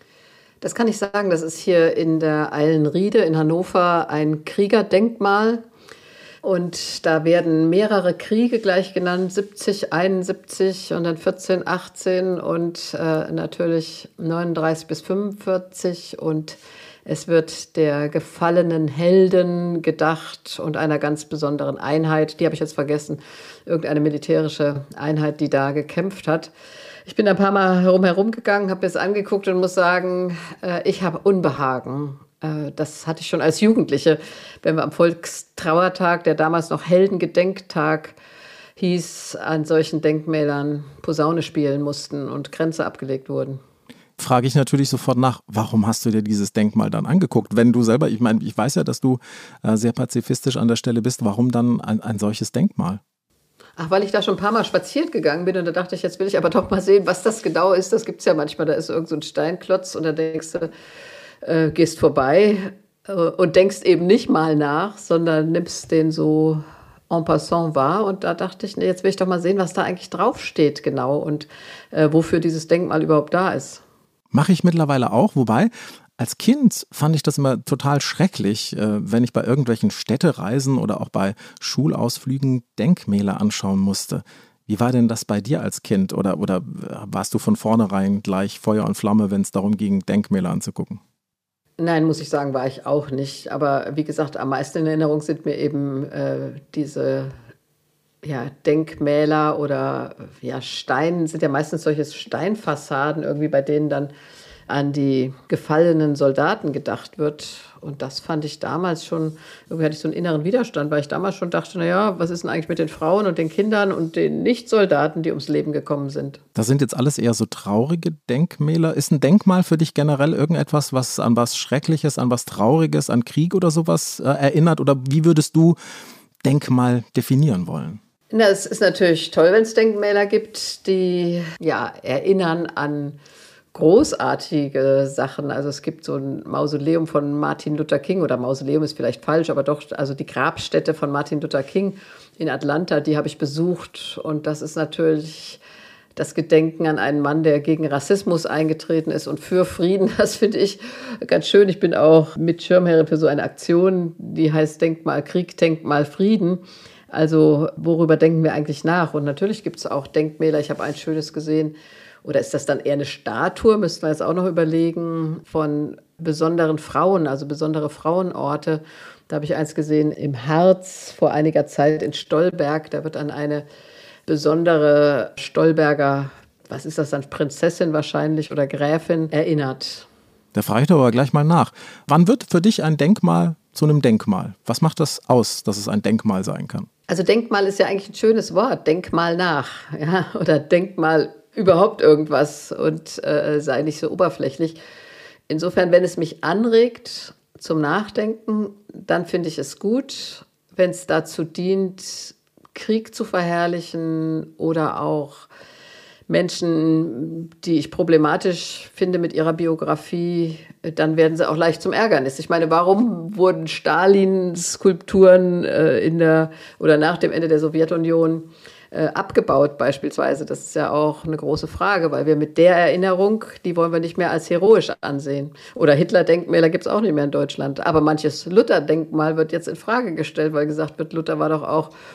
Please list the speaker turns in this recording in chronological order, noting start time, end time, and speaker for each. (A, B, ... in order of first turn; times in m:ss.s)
0:00.6-0:05.6 A
0:06.4-0:26.5 A
0:27.1-0:38.2 A
0:38.8-0:43.6 A
0:44.2-0:53.0 B
0:53.8-1:00.7 A
1:01.4-1:13.8 A
1:14.3-1:31.0 B
1:31.8-1:37.3 A
1:38.2-1:44.1 A
1:44.7-1:56.4 A
1:56.6-2:05.8 B
2:06.4-2:08.0 B
2:08.3-2:13.2 A
2:13.7-2:25.6 A
2:26.2-2:53.6 A
2:54.3-3:00.1 A
3:00.6-3:06.9 B
3:07.1-3:14.8 A
3:15.5-3:25.5 A
3:26.3-3:51.9 A